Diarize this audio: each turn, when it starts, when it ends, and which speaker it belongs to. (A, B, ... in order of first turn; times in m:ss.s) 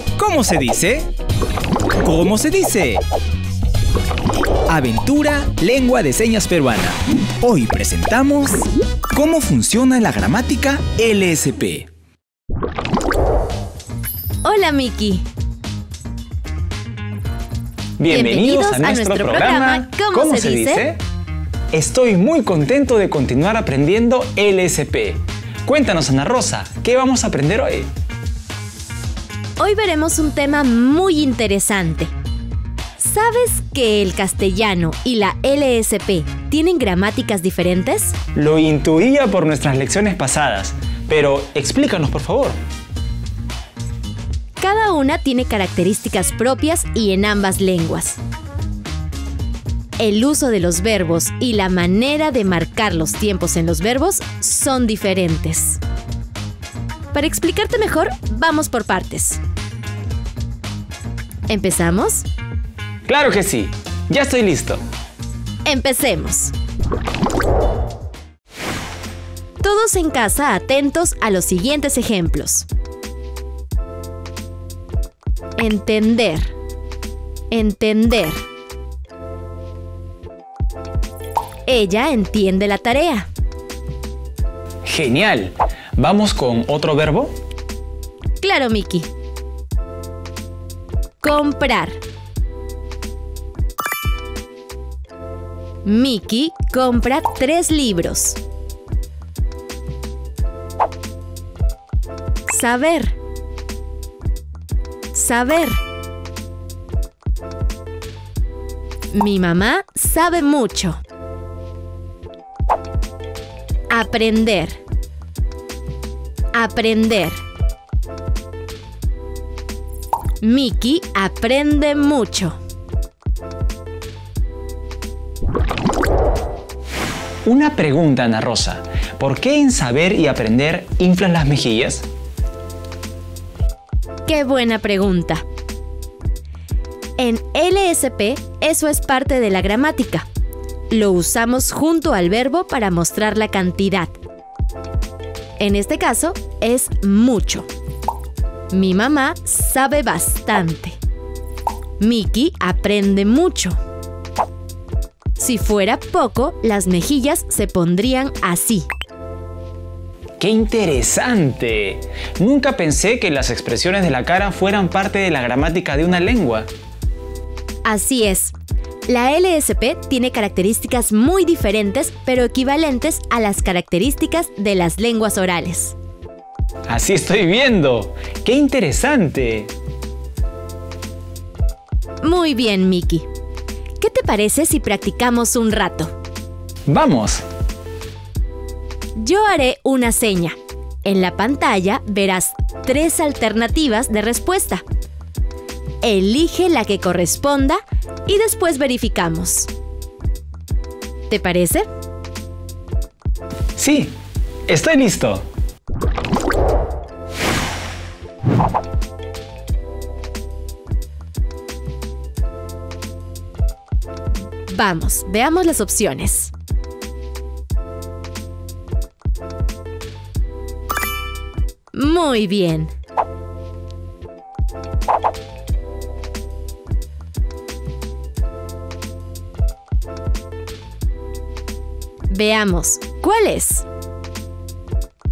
0:00.2-0:01.1 A
0:02.0-0:03.0 A
0:04.7-0:11.9 A
0:14.4-0:15.3 B
0:18.0-0:21.0 A
0:18.1-0:20.8 B
0:21.7-0:27.9 A
0:29.6-0:32.1 B
0:33.0-0:38.2 B
0:38.4-0:42.6 A
0:44.6-0:48.2 B
0:50.0-0:55.8 B
0:57.1-0:59.4 B
1:01.5-1:02.3 B
1:03.1-1:04.8 A
1:05.6-1:06.5 B
1:09.6-1:12.7 B
1:15.6-1:16.5 B
1:17.5-1:18.4 B
1:21.7-1:23.3 B
1:24.8-1:27.3 A
1:28.4-1:29.1 B
1:31.2-1:32.0 B
1:35.8-1:38.4 B
1:42.5-1:43.2 B
1:45.1-1:45.8 B
1:49.1-1:51.0 B
1:53.9-1:54.8 B
1:56.5-1:57.4 B
2:00.4-2:02.6 B
2:07.4-2:12.1 A
2:14.3-2:15.4 B
2:17.2-2:20.3 B
2:20.9-2:24.2 B
2:25.6-2:27.7 B
2:28.7-2:31.0 B
2:32.0-2:33.8 B
2:35.4-2:38.9 B
2:40.4-2:46.7 A
2:47.8-2:48.6 B
2:49.1-2:56.0 B
2:56.9-2:59.7 A
3:02.2-3:03.3 B
3:04.0-3:06.1 B
3:06.9-3:07.4 A
3:09.2-3:14.8 B
3:16.0-3:19.7 B
3:21.3-3:21.9 B
3:23.8-3:24.1 A
3:24.7-3:25.4 A
3:34.7-3:36.5 B
3:41.9-3:42.9 B
3:52.3-3:53.9 B